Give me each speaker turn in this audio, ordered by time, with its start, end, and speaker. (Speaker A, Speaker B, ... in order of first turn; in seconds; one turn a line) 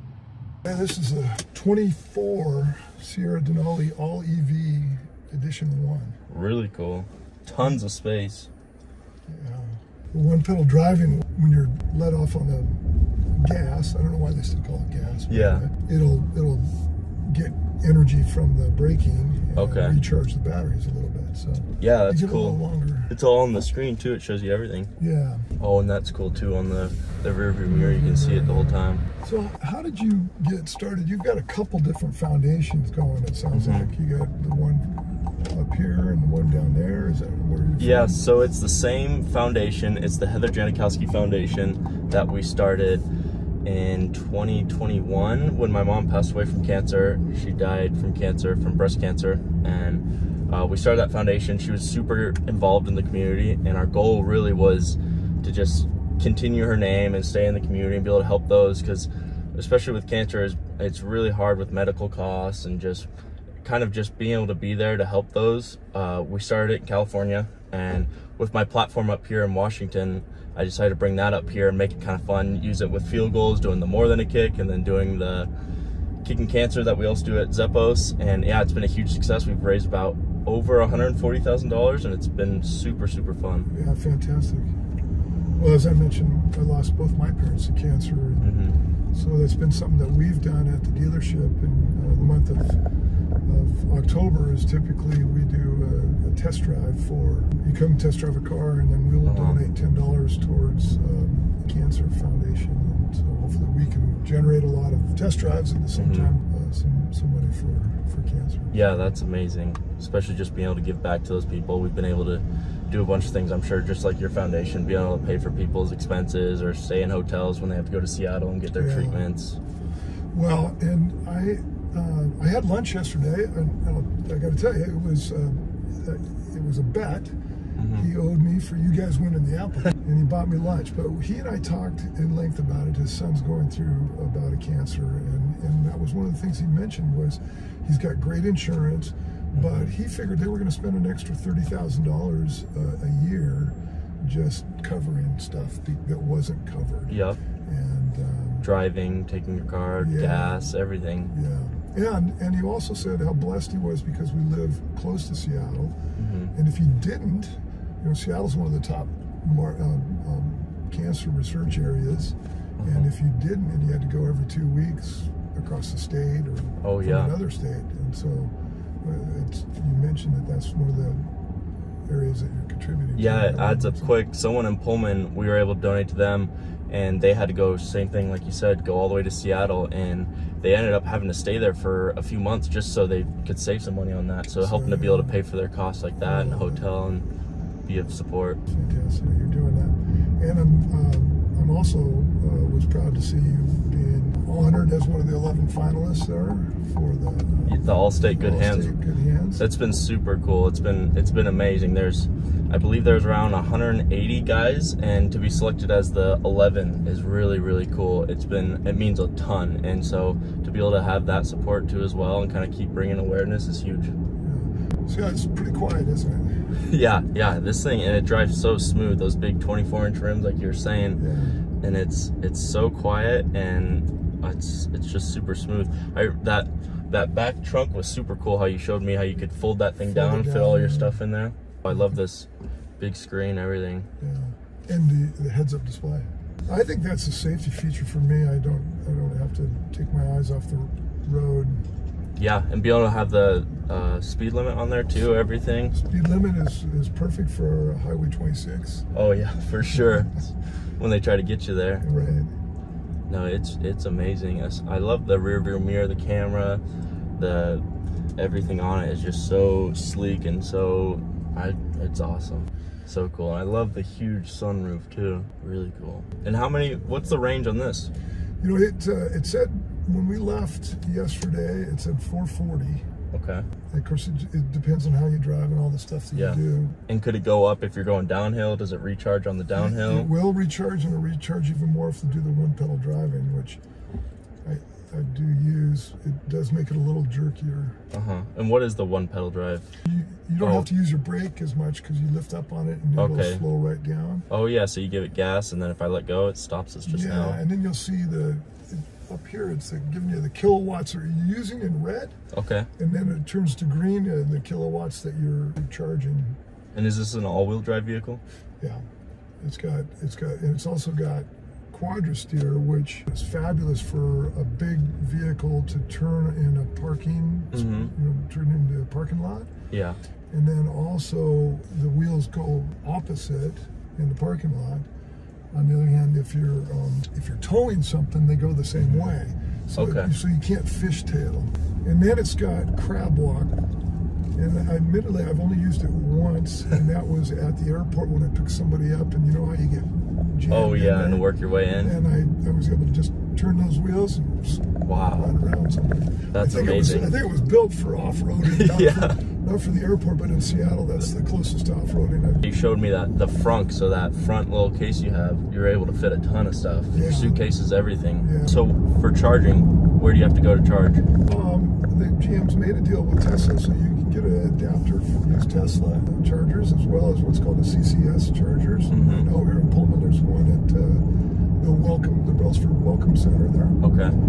Speaker A: 0.7-6.2
Speaker B: 6.3-8.5
Speaker A: 9.3-12.8
Speaker A: 13.3-23.1
Speaker B: 15.3-15.7
Speaker B: 19.6-20.0
Speaker B: 21.8-24.9
Speaker A: 25.0-25.5
Speaker B: 25.6-29.0
Speaker A: 27.7-38.2
Speaker B: 33.5-33.9
Speaker B: 37.8-43.1
Speaker B: 43.6-63.1
Speaker B: 63.6-75.5
Speaker B: 76.2-83.7
Speaker A: 83.7-84.7
Speaker A: 85.6-88.6
Speaker B: 88.4-88.8
Speaker A: 89.1-92.8
Speaker A: 93.5-109.0
Speaker B: 99.2-99.6
Speaker B: 105.9-106.3
Speaker B: 108.7-119.6
Speaker A: 118.7-119.3
Speaker A: 120.3-127.3
Speaker B: 127.8-128.1
Speaker A: 127.9-148.7
Speaker B: 139.5-139.9
Speaker B: 147.1-147.4
Speaker B: 148.6-151.3
Speaker A: 150.0-156.0
Speaker B: 156.2-156.5
Speaker A: 156.5-171.3
Speaker B: 162.8-163.1
Speaker B: 166.8-167.4
Speaker A: 172.1-174.2
Speaker B: 173.2-187.3
Speaker A: 184.6-185.4
Speaker A: 186.2-186.9
Speaker B: 187.9-188.6
Speaker A: 188.7-199.7
Speaker B: 197.7-198.9
Speaker B: 199.6-214.1
Speaker A: 214.4-216.8
Speaker B: 216.8-221.2
Speaker A: 221.2-221.6
Speaker B: 221.8-232.5
Speaker A: 230.1-231.2
Speaker B: 233.0-234.1
Speaker A: 234.2-241.9
Speaker B: 242.4-246.0
Speaker A: 245.9-249.1
Speaker B: 249.1-252.1
Speaker A: 252.0-252.5
Speaker B: 253.3-256.8
Speaker B: 257.4-257.9
Speaker B: 258.4-268.1
Speaker A: 268.6-273.1
Speaker B: 273.3-273.7
Speaker A: 273.9-277.0
Speaker B: 276.3-280.3
Speaker A: 279.7-283.8
Speaker A: 284.6-288.0
Speaker B: 288.1-289.9
Speaker A: 290.0-294.5
Speaker B: 290.6-290.9
Speaker B: 293.1-293.7
Speaker B: 294.5-297.6
Speaker A: 297.0-302.4
Speaker B: 302.5-302.9
Speaker A: 303.0-306.6
Speaker B: 306.9-308.4
Speaker A: 308.8-309.1
Speaker A: 309.6-319.7
Speaker B: 317.7-318.1
Speaker B: 319.9-320.2
Speaker A: 320.5-325.1
Speaker A: 325.7-333.8
Speaker B: 329.0-329.3
Speaker B: 329.9-330.3
Speaker A: 334.6-352.7
Speaker B: 340.7-342.2
Speaker B: 345.0-345.6
Speaker B: 346.5-347.4
Speaker B: 348.6-349.4
Speaker B: 352.6-361.3
Speaker A: 357.1-357.7
Speaker A: 358.4-358.8
Speaker A: 361.4-371.3
Speaker B: 369.1-369.5
Speaker A: 371.8-374.0
Speaker B: 374.0-374.4